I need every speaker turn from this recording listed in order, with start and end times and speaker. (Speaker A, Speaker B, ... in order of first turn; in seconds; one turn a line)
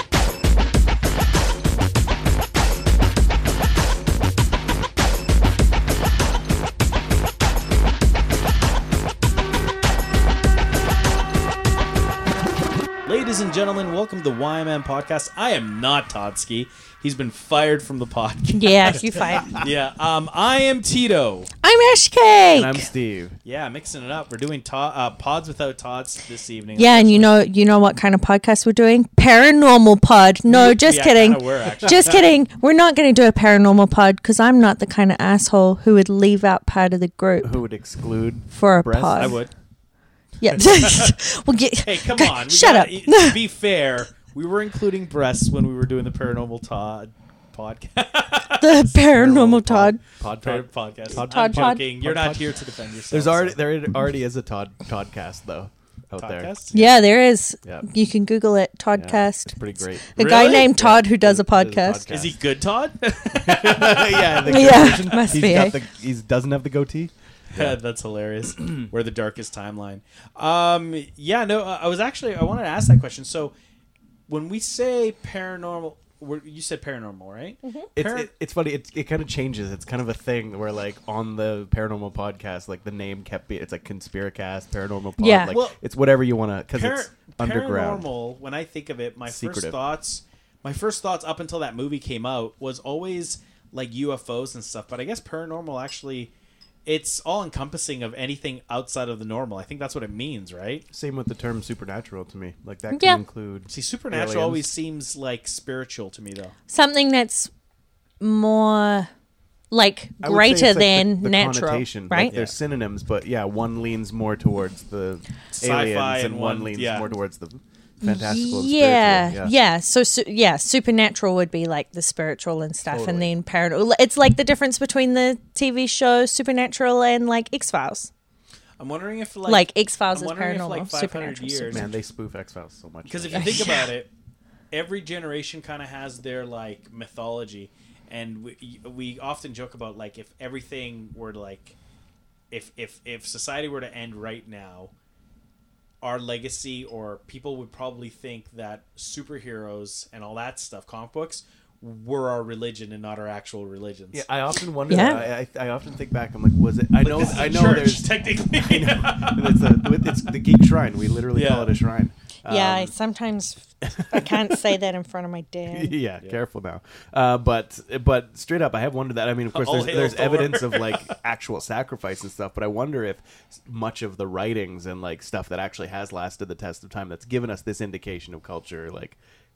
Speaker A: 13.1-21.5
Speaker B: 18.6-19.6
Speaker B: 21.6-22.9
Speaker C: 22.5-23.4
Speaker A: 23.4-27.4
Speaker B: 26.8-37.5
Speaker A: 30.5-32.3
Speaker C: 37.4-39.4
Speaker B: 38.5-39.4
Speaker A: 39.1-39.5
Speaker B: 40.4-43.4
Speaker A: 40.6-41.1
Speaker A: 41.8-49.0
Speaker B: 48.6-50.0
Speaker C: 49.1-52.4
Speaker A: 50.4-53.6
Speaker B: 51.2-51.8
Speaker C: 53.1-57.0
Speaker A: 56.2-56.7
Speaker B: 56.7-59.6
Speaker C: 58.9-62.4
Speaker B: 60.1-62.0
Speaker A: 60.2-60.7
Speaker A: 62.1-65.3
Speaker C: 63.3-67.8
Speaker B: 64.4-65.8
Speaker A: 67.5-73.5
Speaker A: 74.3-78.3
Speaker C: 77.9-88.1
Speaker B: 85.2-85.5
Speaker A: 85.5-85.8
Speaker A: 86.7-96.3
Speaker C: 89.3-89.8
Speaker A: 96.8-100.8
Speaker C: 100.9-104.6
Speaker B: 102.9-103.2
Speaker A: 103.7-106.5
Speaker B: 106.7-107.5
Speaker B: 108.2-109.1
Speaker B: 109.7-112.3
Speaker C: 110.2-119.5
Speaker A: 112.3-112.5
Speaker A: 115.5-117.1
Speaker B: 118.0-128.1
Speaker C: 122.9-123.3
Speaker A: 128.8-131.9
Speaker B: 129.5-131.8
Speaker C: 131.7-133.7
Speaker A: 133.1-134.1
Speaker B: 133.3-133.8
Speaker A: 134.7-141.7
Speaker A: 142.5-144.9
Speaker A: 146.0-154.3
Speaker C: 154.1-162.9
Speaker B: 154.9-155.2
Speaker A: 157.0-160.4
Speaker A: 161.3-161.7
Speaker B: 162.5-165.9
Speaker C: 163.8-164.7
Speaker C: 165.7-179.2
Speaker A: 169.5-171.2